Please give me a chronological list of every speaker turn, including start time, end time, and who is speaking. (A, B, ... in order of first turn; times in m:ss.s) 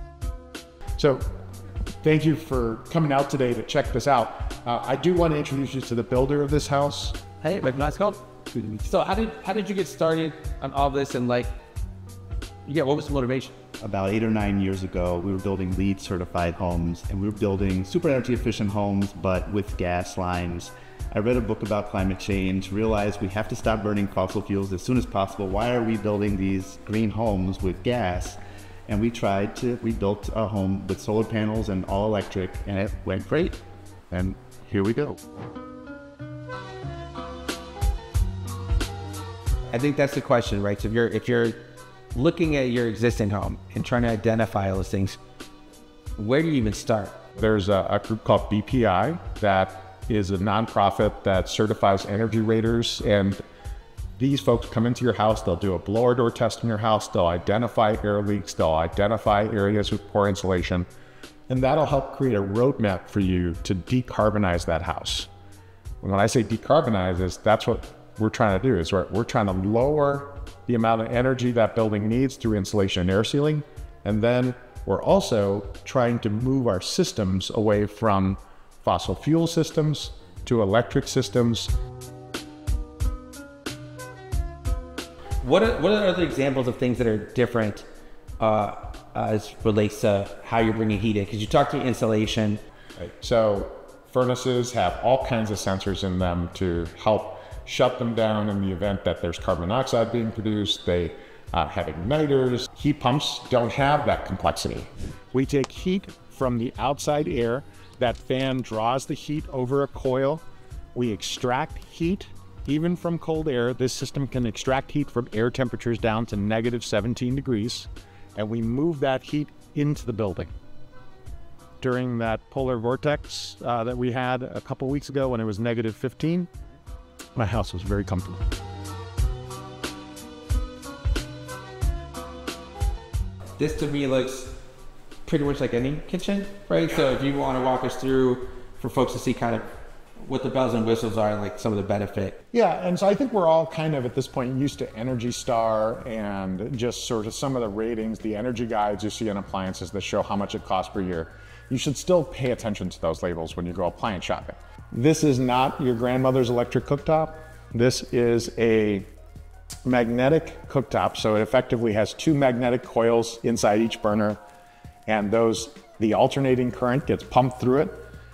0:01.0-0:01.2 A
0:02.0-0:07.2 A
0:07.4-0:11.5 B
0:12.6-0:13.6 B
0:13.8-0:33.6 C
0:34.1-0:35.2 C
0:39.7-0:45.2 B
0:46.2-0:47.2 B
0:47.3-0:53.4 A
0:54.2-1:00.9 A
1:01.5-1:05.3 A
1:06.0-1:21.7 A
1:25.4-1:27.8 B
1:28.4-1:32.6 B
1:33.2-1:50.4 A
1:50.9-2:00.5 A
2:01.8-2:06.5 A
2:07.3-2:08.4 A
2:13.6-2:14.6 B
2:15.2-2:19.7 B
2:20.2-2:22.4 B
2:22.5-2:39.1 A
2:39.8-2:44.4 A
2:45.1-2:48.0 A